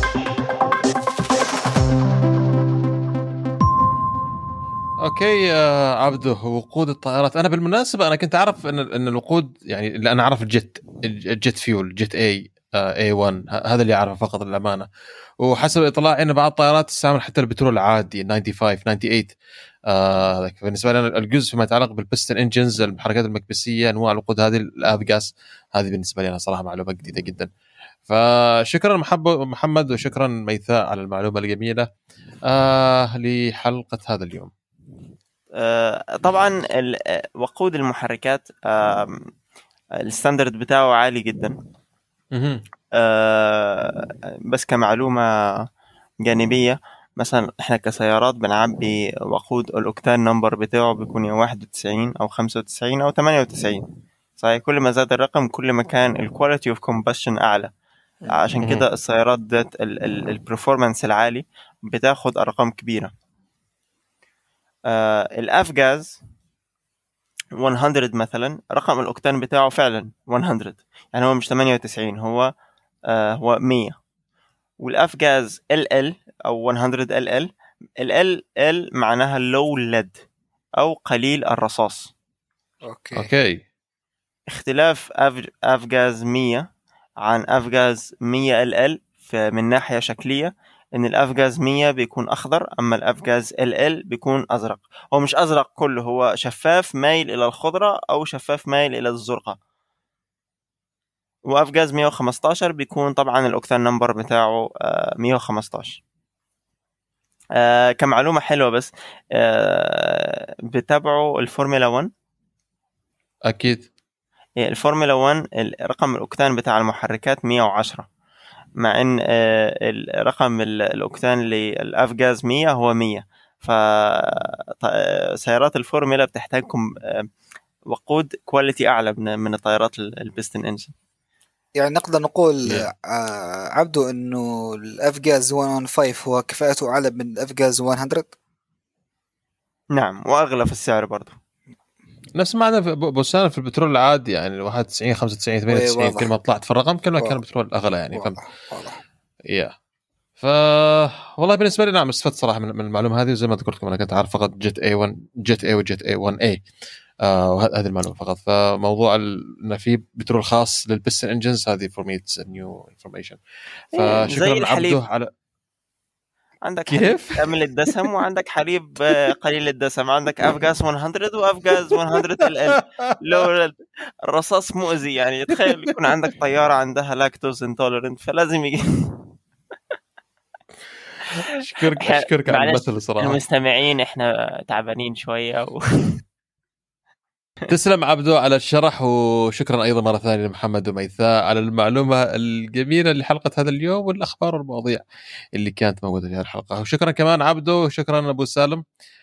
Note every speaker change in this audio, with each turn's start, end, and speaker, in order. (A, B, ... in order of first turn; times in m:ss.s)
0:05.0-0:14.9 A
0:15.4-0:19.3 A
0:19.9-0:27.5 A
0:28.1-0:31.9 A
0:32.5-0:34.5 A
0:35.6-0:39.3 B
0:40.0-0:41.6 B
0:42.3-0:42.6 A
0:43.0-0:45.6 B
0:46.2-0:53.9 B
0:54.4-0:57.7 B
0:58.3-1:03.1 B
1:04.9-1:06.2 B
1:07.6-1:12.5 B
1:13.1-1:14.0 B
1:14.8-1:20.2 B
1:20.8-1:22.1 B
1:22.8-1:23.3 C
1:23.2-1:23.6 A
1:24.5-1:26.7 B
1:27.2-1:39.6 B
1:41.5-1:46.0 B
1:47.6-1:52.1 B
1:53.5-1:53.9 A
1:54.6-1:58.1 B
1:58.8-2:07.3 B
2:07.9-2:10.9 B
2:11.8-2:18.3 C
2:20.0-2:21.4 B
2:22.4-2:28.4 A
2:25.7-2:26.3 C
2:28.1-2:29.0 C
2:30.4-2:36.6 A
2:37.2-2:43.4 A
2:43.9-2:45.0 B
2:43.9-2:45.3 A
2:46.7-2:53.8 B
2:46.9-2:47.5 A
2:51.9-2:52.5 A
2:53.0-2:53.5 A
2:54.3-2:59.2 B
2:55.6-2:55.9 A
3:01.4-3:03.4 A
3:02.0-3:06.2 B
3:07.7-3:15.0 A
3:15.6-3:18.8 A